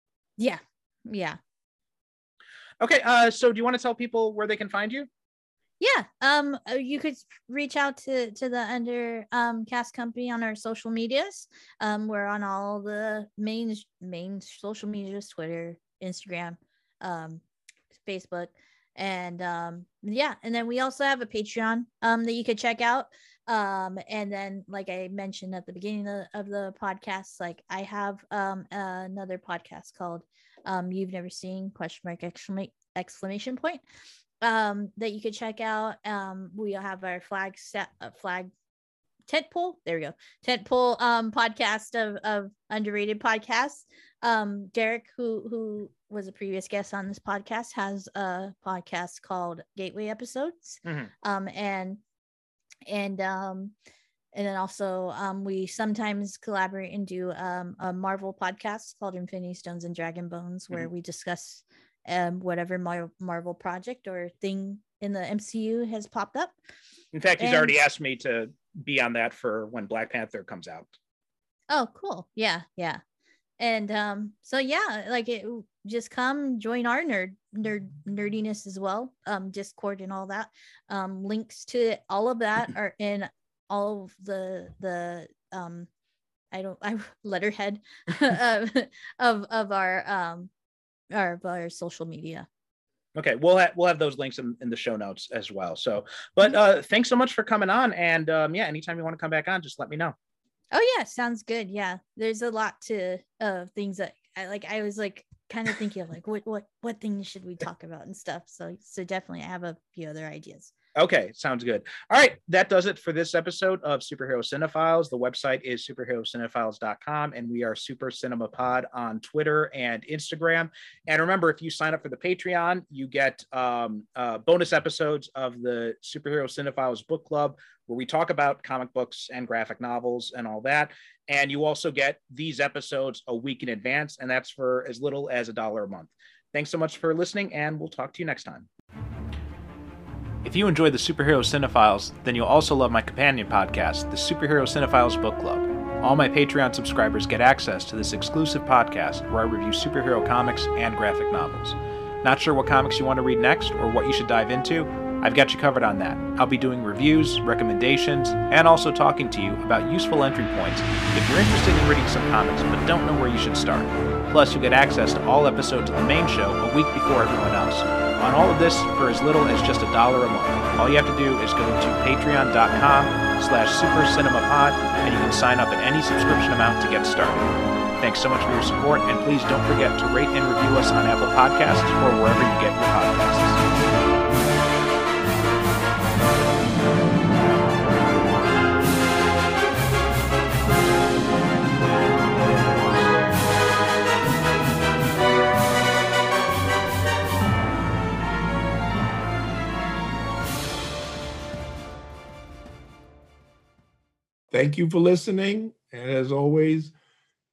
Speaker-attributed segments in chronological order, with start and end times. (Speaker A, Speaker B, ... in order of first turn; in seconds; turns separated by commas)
Speaker A: 0.4-1.4, Speaker B: 2.8-5.1, Speaker A: 5.8-17.4, Speaker A: 18.0-33.8, Speaker A: 34.4-38.5, Speaker A: 39.3-52.0, Speaker B: 50.8-51.1, Speaker A: 52.9-53.7, Speaker A: 54.3-66.5, Speaker B: 67.1-71.0, Speaker A: 67.4-67.7, Speaker A: 71.7-73.0, Speaker A: 73.6-85.9, Speaker A: 86.5-90.5, Speaker A: 91.1-92.5, Speaker B: 93.1-100.2, Speaker A: 100.7-110.7, Speaker B: 111.0-138.7, Speaker B: 140.4-183.6, Speaker C: 204.5-206.9